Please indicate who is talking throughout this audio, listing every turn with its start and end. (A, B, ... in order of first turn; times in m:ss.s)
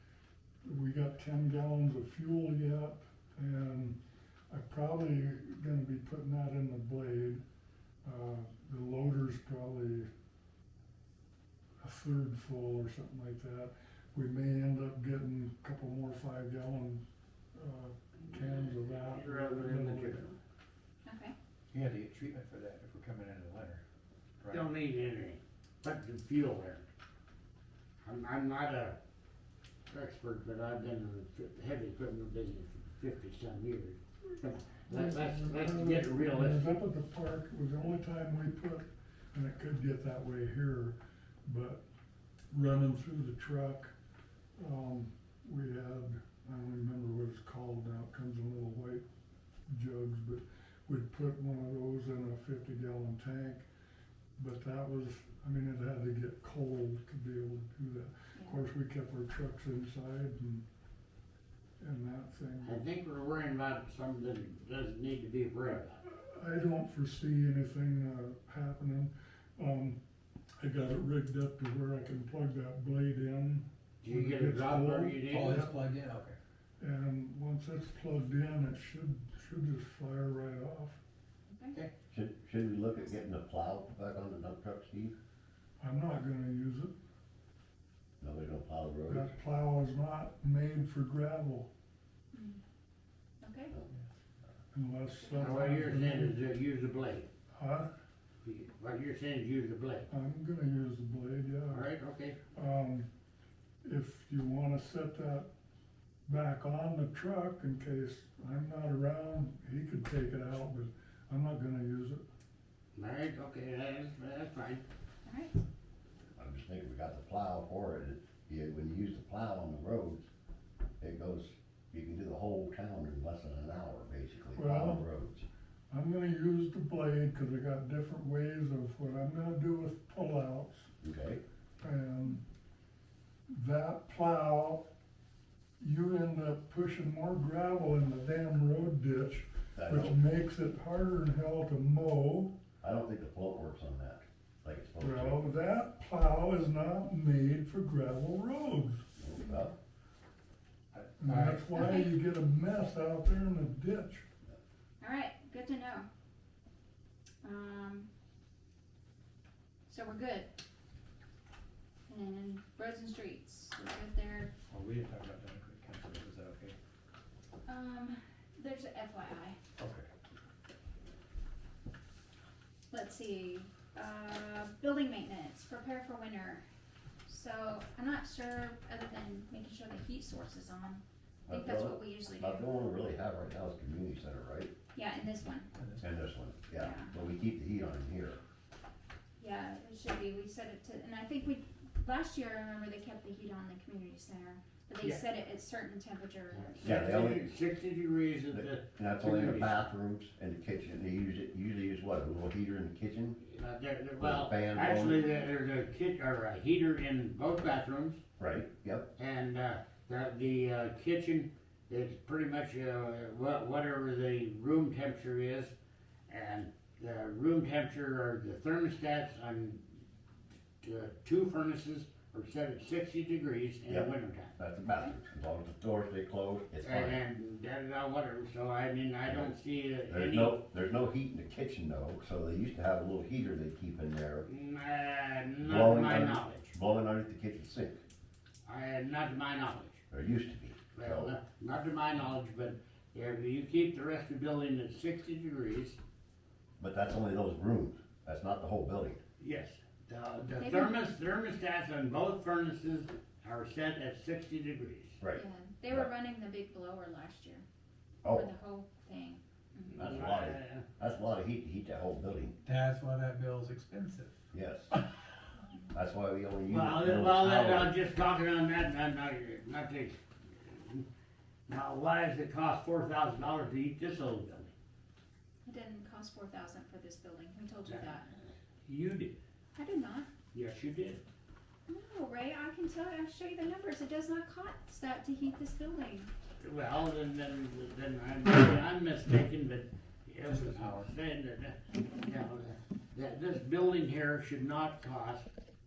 0:00.6-0:04.0 A
0:04.5-0:07.4 A
0:08.0-0:10.1 A
0:11.8-0:17.0 A
0:17.5-0:20.3 A
0:18.4-0:20.3 B
0:21.1-0:21.4 C
0:21.7-0:23.8 D
0:24.4-0:24.7 D
0:24.5-0:26.8 B
0:28.0-0:29.0 B
0:29.9-0:36.7 B
0:34.9-0:41.8 A
0:42.5-0:43.9 A
0:44.6-0:49.0 A
0:49.7-0:53.7 A
0:54.4-1:00.6 A
1:01.8-1:02.8 A
1:02.6-1:06.0 B
1:06.1-1:10.0 A
1:10.6-1:15.7 A
1:14.0-1:15.6 B
1:15.3-1:16.4 D
1:16.8-1:21.0 A
1:21.5-1:21.8 C
1:22.1-1:25.2 E
1:25.8-1:26.9 A
1:28.2-1:29.3 E
1:29.1-1:31.7 A
1:32.3-1:32.6 C
1:33.4-1:33.8 C
1:34.7-1:36.4 A
1:35.2-1:36.0 C
1:35.4-1:37.3 B
1:37.6-1:37.9 A
1:38.4-1:40.1 B
1:40.1-1:41.9 A
1:41.7-1:42.4 B
1:42.5-1:43.1 A
1:43.8-1:45.5 A
1:46.3-1:52.2 A
1:53.0-1:54.8 B
1:55.3-1:55.5 C
1:56.4-2:00.2 E
2:01.0-2:05.5 E
2:04.5-2:05.0 A
2:05.9-2:10.9 A
2:11.0-2:11.4 E
2:11.8-2:12.4 A
2:13.5-2:14.8 A
2:15.8-2:22.6 A
2:19.8-2:20.2 E
2:22.8-2:25.4 E
2:25.0-2:29.0 A
2:29.2-2:29.8 E
2:29.4-2:29.7 C
2:30.9-2:31.8 D
2:31.2-2:34.2 A
2:31.7-2:32.2 C
2:35.0-2:36.1 C
2:37.4-2:38.1 C
2:39.9-2:40.5 C
2:42.1-2:44.5 C
2:44.7-2:46.8 D
2:47.7-2:49.6 C
2:49.8-2:50.1 D
2:52.9-2:56.6 C
2:57.3-3:02.6 C
3:01.5-3:04.7 E
3:04.9-3:05.7 C
3:05.8-3:06.0 D
3:06.0-3:08.4 E
3:06.8-3:07.1 C
3:09.4-3:17.0 C
3:16.5-3:19.8 B
3:16.8-3:17.5 E
3:18.5-3:23.4 E
3:23.4-3:28.2 B
3:24.2-3:25.2 E
3:28.4-3:29.1 E
3:29.2-3:35.7 B
3:36.3-3:39.8 B
3:40.8-3:44.6 B
3:43.9-3:47.2 E
3:46.8-3:50.6 B
3:49.3-3:49.5 E
3:50.1-3:54.5 E
3:54.4-3:56.7 B
3:55.6-3:58.0 E
3:58.7-4:00.0 B
4:00.1-4:01.4 E
4:01.0-4:06.0 B
4:06.8-4:09.2 E
4:09.4-4:15.2 B
4:10.6-4:11.0 C
4:15.2-4:16.1 E
4:15.3-4:17.6 C
4:18.2-4:18.5 E
4:18.3-4:20.0 C
4:19.9-4:20.9 B
4:20.0-4:22.6 E
4:22.6-4:24.4 D
4:24.5-4:24.9 E
4:25.9-4:27.9 E
4:26.7-4:31.1 B
4:31.7-4:34.7 B
4:35.7-4:38.4 C
4:37.9-4:39.4 B
4:39.8-4:40.3 C
4:40.5-4:41.2 B
4:41.9-4:46.3 C
4:46.6-4:55.5 B
4:50.4-4:51.1 D